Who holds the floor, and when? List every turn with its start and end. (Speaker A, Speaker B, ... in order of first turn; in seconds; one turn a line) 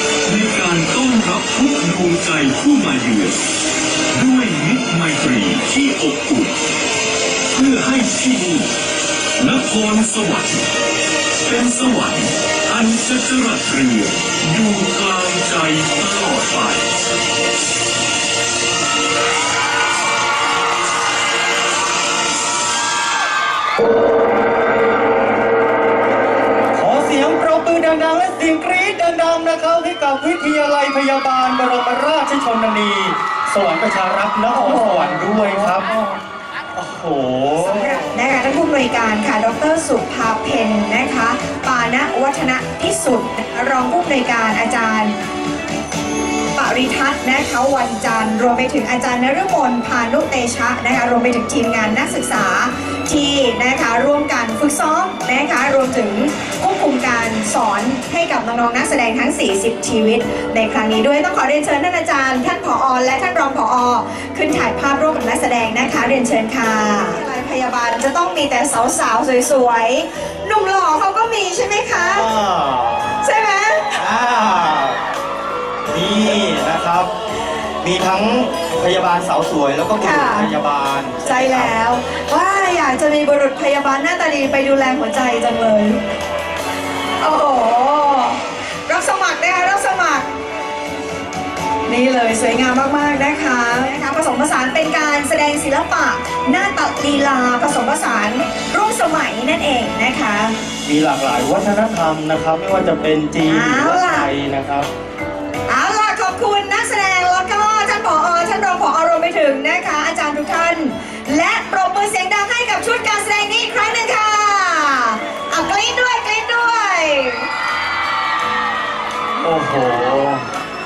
Speaker A: 0.3-3.4
Speaker A: 4.1-6.6
Speaker A: 7.5-8.7
Speaker A: 9.4-10.7
Speaker A: 11.4-16.9
Speaker B: 26.8-36.0
Speaker C: 34.6-35.3
Speaker B: 36.8-38.1
Speaker C: 37.6-45.1
Speaker C: 46.5-72.3
Speaker B: 72.0-73.2
Speaker C: 73.2-74.0
Speaker B: 74.0-75.0
Speaker B: 75.9-77.1
Speaker B: 77.8-81.8
Speaker C: 80.0-80.5
Speaker C: 81.2-86.0
Speaker C: 87.2-90.3
Speaker C: 91.9-100.6
Speaker B: 100.8-104.9
Speaker C: 103.5-104.3
Speaker C: 105.7-117.5
Speaker B: 119.4-120.4